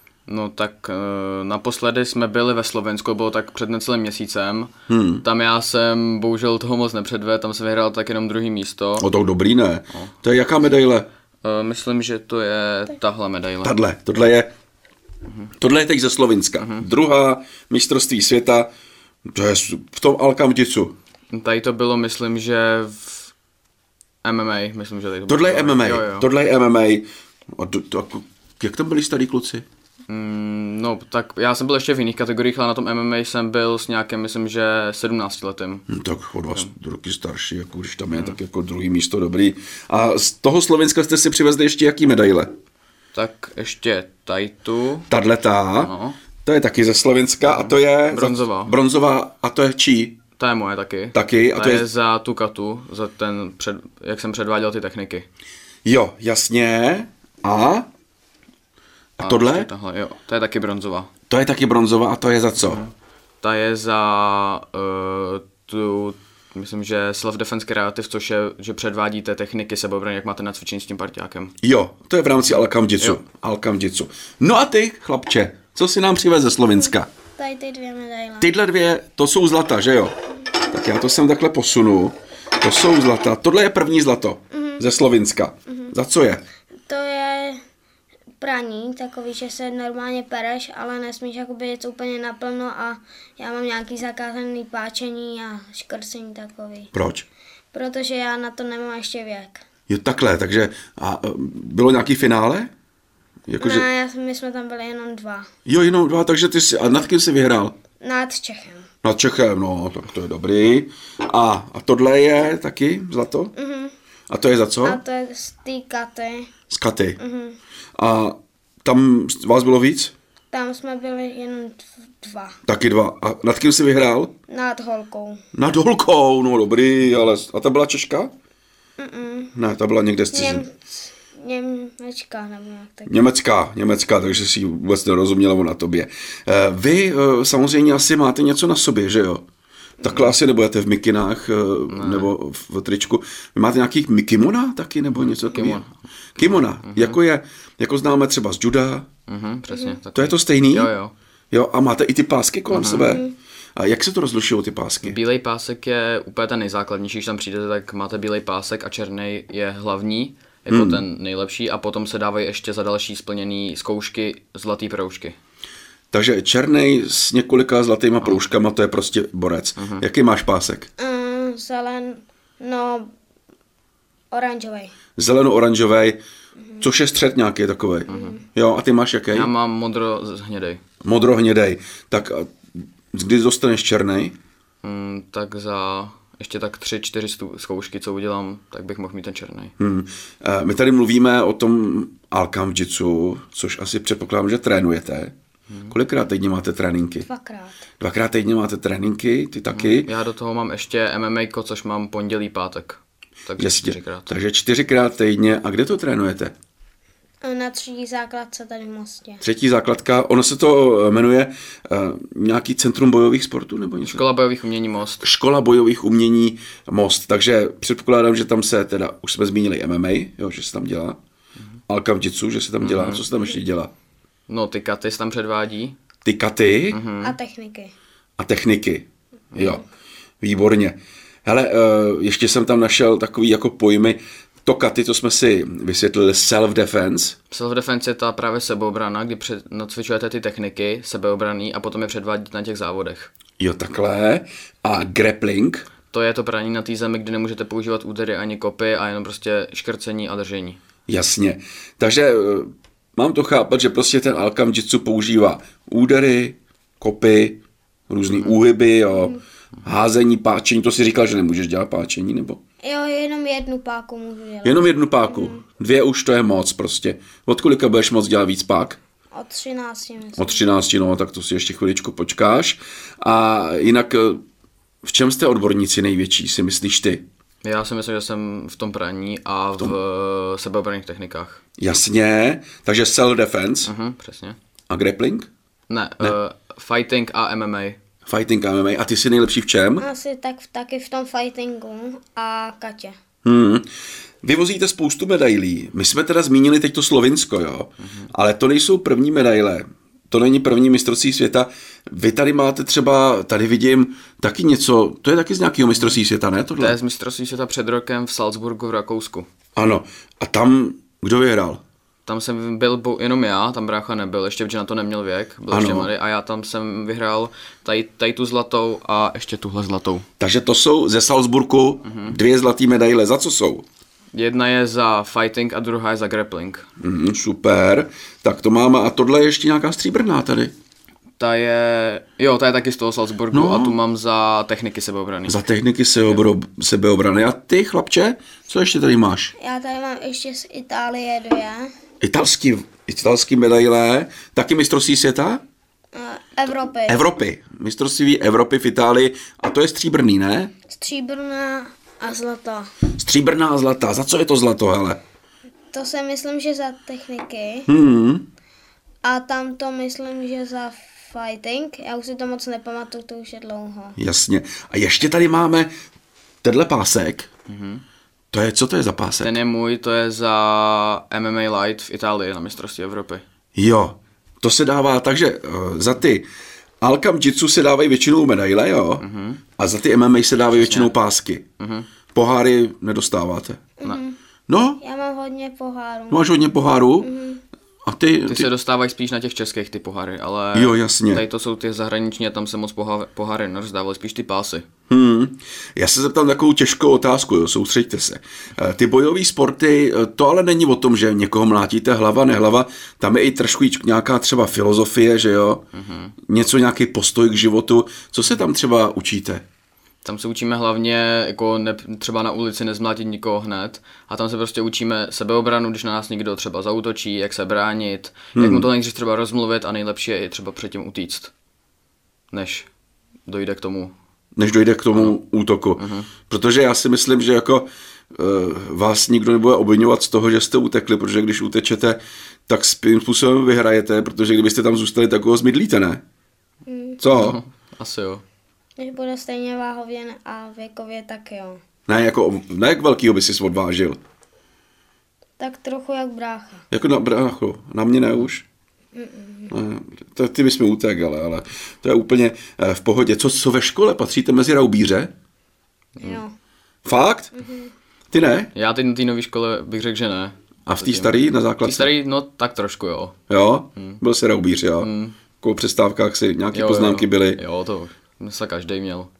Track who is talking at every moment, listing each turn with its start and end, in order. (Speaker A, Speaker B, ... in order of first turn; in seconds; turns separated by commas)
Speaker A: 0.3-4.7, Speaker B: 4.9-5.2, Speaker A: 5.2-9.1, Speaker B: 9.0-11.1, Speaker A: 11.4-13.8, Speaker B: 13.6-14.5, Speaker B: 15.6-18.7, Speaker A: 16.6-16.8, Speaker B: 19.3-20.9, Speaker A: 21.3-23.3, Speaker A: 24.2-26.3, Speaker B: 25.3-29.6, Speaker A: 30.1-35.9, Speaker B: 35.9-42.5, Speaker A: 38.1-38.4, Speaker A: 43.1-45.1, Speaker B: 45.1-45.9, Speaker A: 45.8-46.2, Speaker B: 46.4-50.2, Speaker A: 47.4-48.8, Speaker A: 50.4-55.2, Speaker B: 51.1-51.9, Speaker B: 55.8-57.9, Speaker B: 59.2-59.7, Speaker A: 59.2-61.1, Speaker B: 61.3-62.8, Speaker A: 62.6-71.5, Speaker B: 71.6-77.1, Speaker A: 72.5-73.2, Speaker C: 76.7-78.5, Speaker B: 78.4-80.1, Speaker B: 80.7-86.4, Speaker C: 84.5-84.8, Speaker C: 86.9-87.6, Speaker C: 88.4-96.9, Speaker B: 96.9-97.2, Speaker C: 97.7-99.6, Speaker B: 99.9-102.7, Speaker B: 103.5-103.8, Speaker C: 103.6-105.5, Speaker B: 105.7-107.8, Speaker C: 108.0-108.9, Speaker B: 109.0-113.5, Speaker C: 113.5-113.9, Speaker B: 114.3-115.0, Speaker C: 114.8-116.5, Speaker B: 116.7-117.2, Speaker C: 117.2-117.6, Speaker B: 118.0-120.1, Speaker C: 120.5-122.6, Speaker B: 122.7-124.3, Speaker C: 124.5-125.4, Speaker B: 125.5-128.3, Speaker C: 129.0-129.5, Speaker B: 129.6-130.6, Speaker C: 130.3-133.3, Speaker B: 133.1-139.4, Speaker B: 140.0-145.8, Speaker A: 140.1-140.3, Speaker A: 141.9-142.3, Speaker A: 145.2-147.2, Speaker B: 146.4-149.1, Speaker A: 149.3-151.1, Speaker C: 149.7-150.0, Speaker B: 150.1-150.9, Speaker B: 151.5-155.2, Speaker A: 152.7-153.1, Speaker C: 153.1-153.3, Speaker A: 155.0-165.3, Speaker B: 160.7-161.0, Speaker B: 166.1-170.9, Speaker A: 169.8-170.1, Speaker C: 171.0-173.1, Speaker C: 174.3-174.9, Speaker B: 175.2-176.2, Speaker B: 176.8-179.5, Speaker C: 178.1-178.5, Speaker A: 178.1-178.4, Speaker A: 179.3-180.8, Speaker B: 181.0-182.6, Speaker B: 183.1-184.3, Speaker A: 184.8-189.7, Speaker B: 189.8-195.3, Speaker A: 195.7-195.9, Speaker B: 195.9-197.2, Speaker C: 197.2-197.8, Speaker B: 198.0-200.1, Speaker A: 199.7-204.3, Speaker B: 203.6-206.5, Speaker C: 207.4-209.4, Speaker B: 209.4-214.2, Speaker A: 214.0-215.3, Speaker B: 215.2-221.2, Speaker B: 221.9-223.9, Speaker A: 222.8-223.2, Speaker A: 224.5-225.9, Speaker B: 226.2-227.0, Speaker A: 226.9-227.4, Speaker C: 227.2-227.9, Speaker B: 228.4-229.8, Speaker A: 229.5-229.8, Speaker B: 230.4-237.3, Speaker A: 237.5-243.3, Speaker B: 243.6-245.9, Speaker A: 246.1-250.8, Speaker B: 251.1-257.6, Speaker B: 258.1-262.6, Speaker C: 262.8-265.6, Speaker B: 264.6-269.0, Speaker C: 269.3-270.7, Speaker B: 270.4-274.4, Speaker B: 275.0-277.2, Speaker A: 277.6-281.6, Speaker B: 281.8-283.9, Speaker A: 283.8-284.6, Speaker B: 284.9-285.5, Speaker A: 285.9-288.0, Speaker B: 288.2-290.1, Speaker C: 290.0-293.2, Speaker B: 293.4-293.9, Speaker B: 294.4-307.0, Speaker A: 298.0-298.3, Speaker A: 306.8-309.5, Speaker B: 309.8-311.8, Speaker A: 312.2-320.2, Speaker B: 315.7-316.1, Speaker B: 320.4-323.8, Speaker A: 322.0-322.4, Speaker A: 324.3-326.9, Speaker B: 327.0-330.7, Speaker A: 331.4-335.6, Speaker B: 333.5-334.0, Speaker B: 335.5-339.5, Speaker C: 339.6-341.9, Speaker B: 342.2-345.6, Speaker C: 346.1-347.2, Speaker B: 347.1-350.7, Speaker C: 350.9-352.9, Speaker B: 353.1-355.2, Speaker C: 355.9-357.9, Speaker B: 357.9-358.5, Speaker C: 359.2-364.2, Speaker B: 364.2-365.9, Speaker B: 366.6-367.5, Speaker A: 367.7-368.0, Speaker B: 368.5-369.6, Speaker A: 369.4-373.4, Speaker B: 373.7-376.5, Speaker B: 377.0-379.2, Speaker A: 379.2-379.6, Speaker B: 379.8-381.6, Speaker A: 380.6-381.1, Speaker A: 381.8-382.1, Speaker B: 382.3-383.8, Speaker C: 384.0-384.4, Speaker B: 384.7-385.0, Speaker C: 385.0-386.5, Speaker B: 386.3-387.3, Speaker C: 387.2-387.6, Speaker B: 388.1-388.7, Speaker A: 388.4-394.8, Speaker B: 390.7-391.4, Speaker B: 395.1-405.8, Speaker A: 405.9-406.3, Speaker B: 406.5-409.6, Speaker A: 410.2-421.5, Speaker B: 418.5-418.9, Speaker A: 422.5-422.9, Speaker A: 423.4-424.1, Speaker B: 424.6-436.2, Speaker A: 426.0-426.3, Speaker C: 436.9-437.2, Speaker B: 437.2-437.6, Speaker A: 437.3-438.4, Speaker C: 439.0-441.8, Speaker B: 442.1-444.2, Speaker C: 445.6-446.8, Speaker B: 446.9-448.6, Speaker C: 449.1-449.7, Speaker B: 449.7-455.3, Speaker A: 456.2-456.4, Speaker C: 456.2-456.5, Speaker B: 457.0-457.5, Speaker C: 457.5-457.9, Speaker B: 458.3-458.7, Speaker A: 458.7-463.3, Speaker B: 460.9-462.1, Speaker B: 463.5-465.1, Speaker A: 463.9-464.2, Speaker A: 465.0-465.4, Speaker B: 465.6-467.6, Speaker A: 466.7-469.3